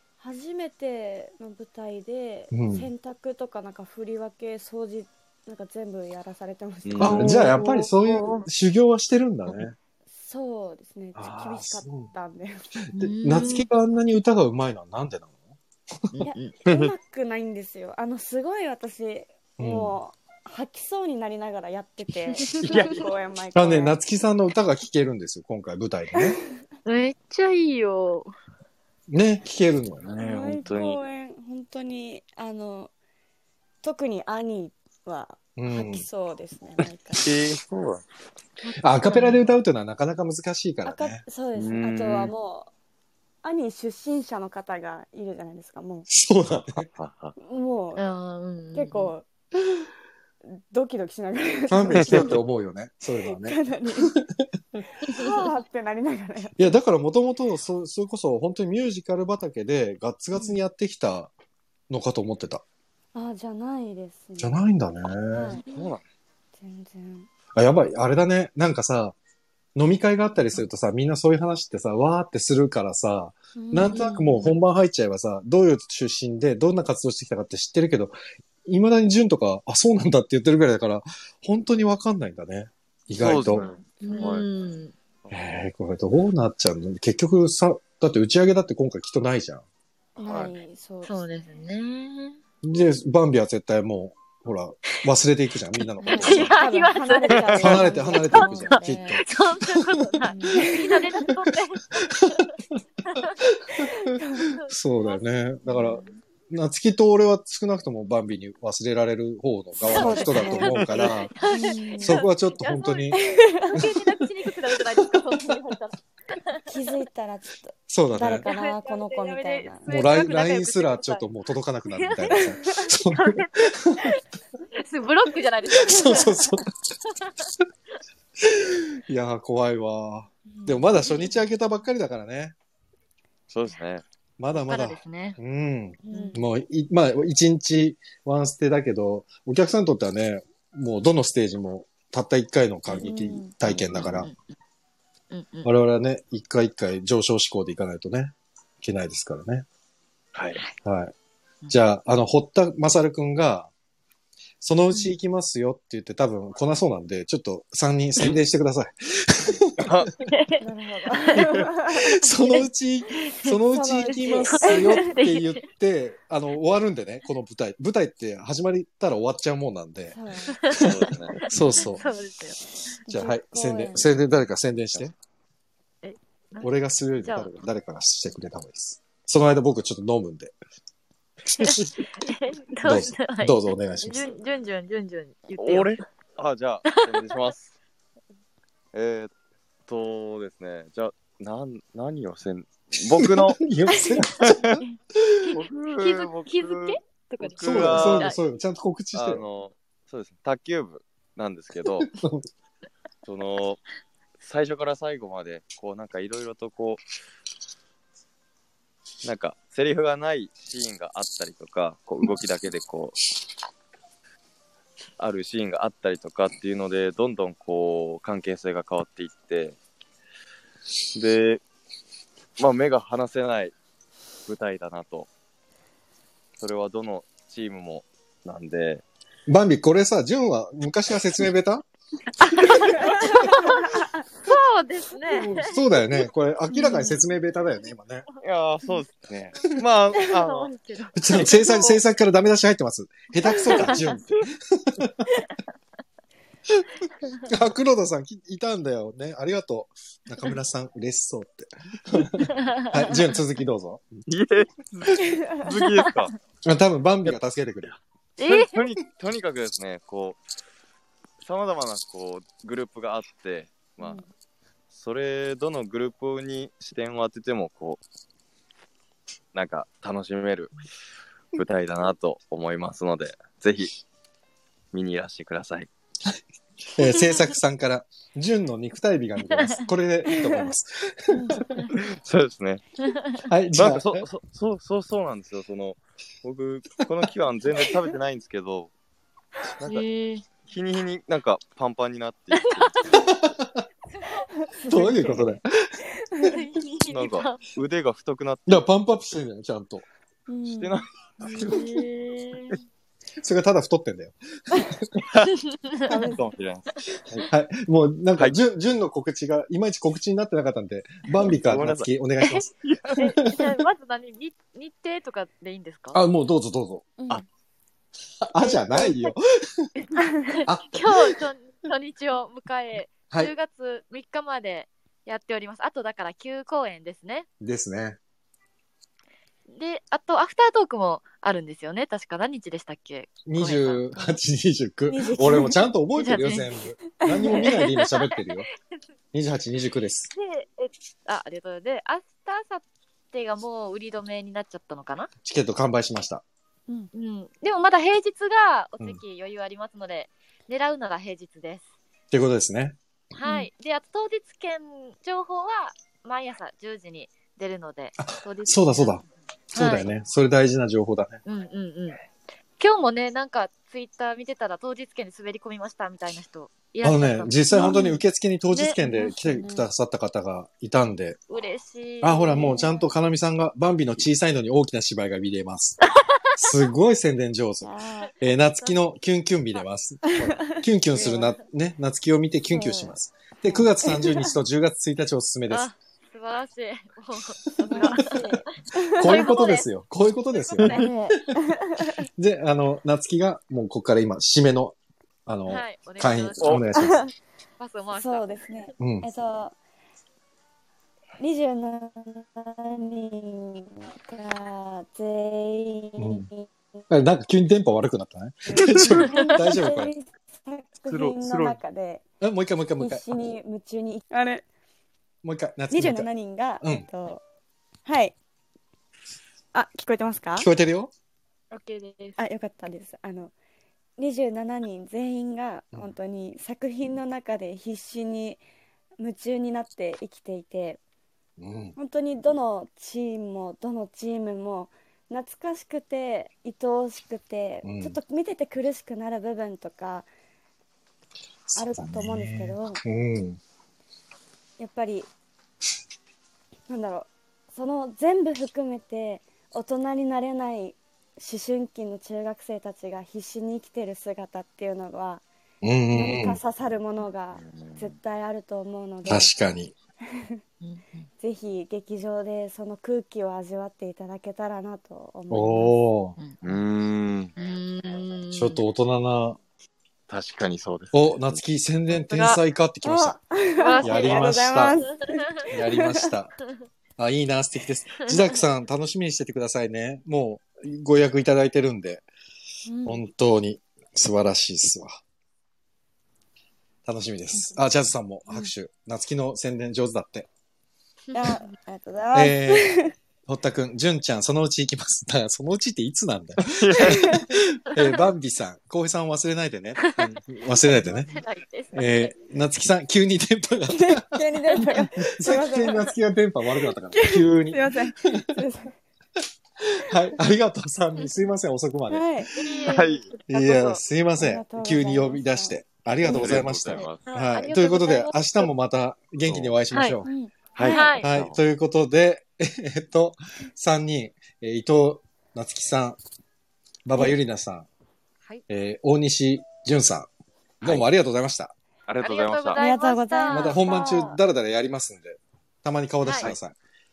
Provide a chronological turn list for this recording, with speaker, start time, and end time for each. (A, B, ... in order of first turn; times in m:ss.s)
0:00.2-0:07.6 A
0:02.5-0:02.9 B
0:06.8-0:08.4 C
0:07.0-0:09.8 B
0:10.1-0:12.7 A
0:11.2-0:12.1 B
0:12.9-0:15.4 B
0:13.0-0:13.7 D
0:16.1-0:16.9 C
0:16.2-0:24.0 A
0:19.6-0:20.0 B
0:22.5-0:22.8 D
0:22.6-0:23.1 C
0:23.6-0:26.4 B
0:26.8-0:28.3 D
0:29.1-0:30.6 B
0:30.2-0:32.9 A
0:30.6-0:31.0 C
0:33.8-0:37.3 A
0:35.6-0:36.1 B
0:37.2-0:38.1 C
0:38.6-0:39.4 D
0:38.8-0:41.2 B
0:40.8-0:42.7 A
0:41.6-0:42.3 C
0:43.4-0:46.1 A
0:46.1-0:46.9 B
0:46.8-0:47.4 C
0:47.4-0:48.1 A
0:48.0-0:49.1 D
0:48.7-0:49.3 A
0:50.4-0:52.4 A
0:51.7-0:55.2 B
0:52.0-0:52.4 C
0:53.2-0:54.2 A
0:55.0-0:56.7 A
0:56.6-1:01.3 B
1:01.9-1:02.6 B
1:03.1-1:04.6 A
1:04.4-1:05.6 B
1:05.3-1:05.8 A
1:05.7-1:06.0 C
1:06.6-1:07.3 A
1:07.5-1:09.2 B
1:09.8-1:23.7 B
1:13.6-1:14.5 A
1:13.8-1:14.5 D
1:23.2-1:24.5 C
1:24.0-1:24.9 D
1:25.3-1:29.6 B
1:30.2-1:31.2 A
1:30.2-1:30.6 C
1:31.0-1:32.4 D
1:32.6-1:36.6 B
1:36.0-1:39.2 A
1:36.0-1:42.5 D
1:37.5-1:39.7 B
1:40.3-1:41.3 A
1:40.5-1:41.3 B
1:42.0-1:42.4 B
1:43.4-1:51.3 B
1:43.8-1:44.5 A
1:44.5-1:45.2 D
1:45.7-1:46.1 A
1:49.8-1:50.8 A
1:49.9-1:56.7 D
1:50.6-1:51.2 C
1:51.5-1:52.2 A
1:51.9-1:54.0 B
1:53.1-1:53.9 A
1:56.7-1:59.9 A
1:57.9-1:58.5 B
1:58.4-2:01.3 D
1:59.9-2:04.1 B
2:01.9-2:02.4 D
2:02.3-2:02.9 A
2:03.1-2:04.2 D
2:04.8-2:06.4 D
2:05.8-2:06.7 B
2:05.9-2:06.6 A
2:08.4-2:12.5 B
2:10.5-2:11.4 A
2:13.5-2:14.0 C
2:14.4-2:24.3 B
2:14.6-2:15.4 D
2:16.1-2:16.5 A
2:16.1-2:16.4 D
2:22.9-2:23.5 A
2:23.6-2:24.0 C
2:23.9-2:24.4 D
2:25.3-2:25.7 D
2:25.6-2:29.7 B
2:30.4-2:30.6 C
2:30.8-2:31.1 B
2:31.7-2:33.7 B
2:34.6-2:39.8 B
2:39.8-2:40.1 C
2:40.2-2:40.6 D
2:40.6-2:42.6 A
2:41.2-2:41.4 D
2:41.5-2:50.2 B
2:42.3-2:45.6 D
2:43.7-2:45.0 A
2:50.1-2:50.6 A
2:50.7-2:52.0 B
2:50.7-2:51.9 C
2:51.8-2:52.6 D
2:53.1-2:54.1 A
2:53.1-2:55.1 B
2:56.0-2:57.6 D
2:56.6-3:00.6 B
3:01.6-3:06.0 D
3:02.8-3:04.3 B
3:05.6-3:07.8 C
3:08.9-3:09.3 C
3:09.9-3:13.6 C
3:13.1-3:14.7 B
3:13.9-3:14.5 A
3:14.4-3:14.8 C
3:15.2-3:15.4 B
3:15.4-3:18.4 D
3:15.5-3:18.3 C
3:17.6-3:19.4 B
3:19.1-3:22.1 C
3:22.0-3:22.5 B
3:23.2-3:23.8 C
3:24.4-3:27.0 C
3:29.2-3:33.2 C
3:35.2-3:39.8 C
3:41.1-3:41.6 C
3:42.6-3:43.8 C
3:44.4-3:45.3 C
3:46.6-3:49.0 C
3:49.5-3:51.8 B
3:52.3-3:55.8 D
3:52.6-3:54.2 A
3:55.3-3:58.3 B
3:56.7-3:57.2 D
3:56.7-3:57.2 A
3:58.4-4:00.7 C
4:00.4-4:01.9 D
4:01.2-4:05.3 B
4:01.4-4:02.0 A
4:03.6-4:04.0 A
4:07.5-4:14.1 B
4:12.5-4:13.2 D
4:14.3-4:16.3 C
4:15.2-4:15.7 A
4:16.6-4:17.9 B
4:17.2-4:20.4 C
4:18.4-4:18.8 D
4:21.4-4:24.2 C
4:24.9-4:28.0 C
4:29.5-4:30.8 C
4:31.5-4:34.0 C
4:34.9-4:35.9 C
4:36.9-4:41.9 B
4:39.5-4:39.8 D
4:40.3-4:40.7 A
4:41.3-4:41.6 A
4:41.9-4:42.8 C
4:43.0-4:43.4 D
4:43.4-4:44.2 B
4:43.8-4:48.9 C
4:49.8-4:50.0 C
4:49.8-4:50.4 D
4:50.6-4:52.9 C
4:52.6-4:53.3 D
4:53.1-4:53.8 B
4:54.7-4:55.6 A
4:54.9-4:56.0 B
4:56.2-4:56.6 A
4:56.4-4:57.6 D
4:57.1-4:58.9 C
4:58.7-5:00.0 B
5:00.5-5:01.0 A
5:00.7-5:02.1 C
5:01.4-5:02.8 D
5:03.4-5:05.2 B
5:05.3-5:07.5 C
5:05.7-5:06.0 D
5:06.1-5:06.5 A
5:07.5-5:12.7 B
5:11.6-5:12.1 C
5:12.8-5:13.3 C
5:13.2-5:16.2 D
5:13.2-5:13.8 B
5:16.1-5:17.0 B
5:17.2-5:17.4 A
5:18.4-5:19.9 B
5:18.6-5:19.3 A
5:20.2-5:20.5 A
5:20.5-5:27.5 D
5:20.7-5:21.4 B
5:27.6-5:28.2 B
5:29.7-5:34.4 D
5:33.4-5:38.7 B
5:35.1-5:35.8 A
5:36.2-5:36.8 D
5:37.2-5:37.8 A
5:37.5-5:38.6 D
5:39.3-5:40.3 B
5:40.3-5:45.3 D
5:45.4-5:46.4 B
5:47.1-5:51.9 D
5:52.3-5:53.0 B
5:53.3-5:59.2 D
5:58.2-5:59.2 B
5:59.7-6:00.1 D
5:59.7-6:01.4 B
6:01.4-6:02.2 D
6:02.8-6:08.1 D
6:07.0-6:11.4 B
6:07.7-6:08.2 A
6:08.7-6:09.0 D
6:09.0-6:09.9 A
6:11.5-6:12.9 D
6:12.2-6:16.0 B
6:12.5-6:13.1 A
6:16.2-6:16.4 D
6:16.6-6:25.9 B
6:17.8-6:18.3 A
6:20.4-6:21.5 A
6:21.1-6:21.6 D
6:22.7-6:24.5 A
6:25.7-6:28.5 D
6:27.8-6:29.5 A
6:29.2-6:29.9 D
6:29.2-6:31.3 B
6:30.5-6:31.1 D
6:30.9-6:32.3 A
6:32.0-6:37.3 B
6:35.7-6:36.9 D
6:36.6-6:36.8 C
6:36.9-6:37.3 A
6:37.8-6:38.6 D
6:38.1-6:39.8 A
6:39.0-6:39.3 B
6:41.4-6:47.0 A
6:46.2-6:46.5 B
6:47.1-6:50.1 B
6:48.7-6:52.2 A
6:51.1-6:51.8 C
6:52.4-6:53.2 B
6:53.0-6:54.6 A
6:55.4-6:56.3 B
6:55.9-6:57.4 A
6:56.8-6:57.1 B
6:58.0-6:58.4 A
6:59.7-7:00.7 A
7:00.6-7:01.1 B
7:01.7-7:02.4 D
7:02.4-7:03.5 A
7:04.2-7:08.6 A
7:09.2-7:11.0 A
7:11.6-7:12.0 B
7:12.0-7:20.3 A
7:17.8-7:18.2 B
7:21.7-7:23.6 B
7:21.8-7:23.0 A
7:24.8-7:25.3 A
7:26.9-7:35.4 A
7:35.8-7:36.6 B
7:36.1-7:39.5 A
7:37.6-7:38.2 C
7:39.2-7:39.9 B
7:40.3-7:40.6 A
7:40.8-7:41.3 D
7:41.4-7:46.0 A
7:45.5-7:46.4 B
7:46.4-7:46.8 D
7:46.6-7:47.5 C
7:47.6-7:48.8 D
7:48.5-7:49.6 B
7:50.3-7:51.6 C
7:51.1-7:53.4 B
7:52.1-7:52.6 D
7:53.0-7:56.3 A
7:53.8-7:55.4 D
7:54.0-7:55.0 B
7:55.7-7:56.5 B
7:57.2-8:02.2 B
7:58.2-7:58.6 D
8:02.9-8:03.2 A
8:03.0-8:05.2 B
8:07.1-8:10.5 B
8:11.3-8:11.7 D
8:11.3-8:13.1 A
8:12.3-8:12.9 B
8:13.5-8:21.4 B
8:16.6-8:17.4 C
8:17.0-8:17.5 A
8:20.0-8:20.4 D
8:20.9-8:22.4 D
8:21.9-8:28.5 B
8:23.9-8:26.1 A
8:26.8-8:28.9 A
8:29.8-8:32.9 B
8:32.1-8:32.5 A
8:32.5-8:33.9 D
8:32.9-8:33.3 C
8:33.5-8:40.3 B
8:34.4-8:37.1 A
8:36.2-8:37.2 C
8:37.3-8:38.7 D
8:39.4-8:39.8 C
8:39.9-8:40.2 D
8:40.2-8:41.1 A
8:40.7-8:41.6 C
8:40.8-8:41.3 D
8:41.2-8:46.2 B
8:47.1-8:47.9 B
8:48.7-8:50.3 B
8:50.8-8:51.7 B
8:52.1-8:52.8 C
8:52.2-8:54.3 D
8:52.8-8:54.4 A
8:53.5-8:56.8 B
8:56.2-8:56.5 D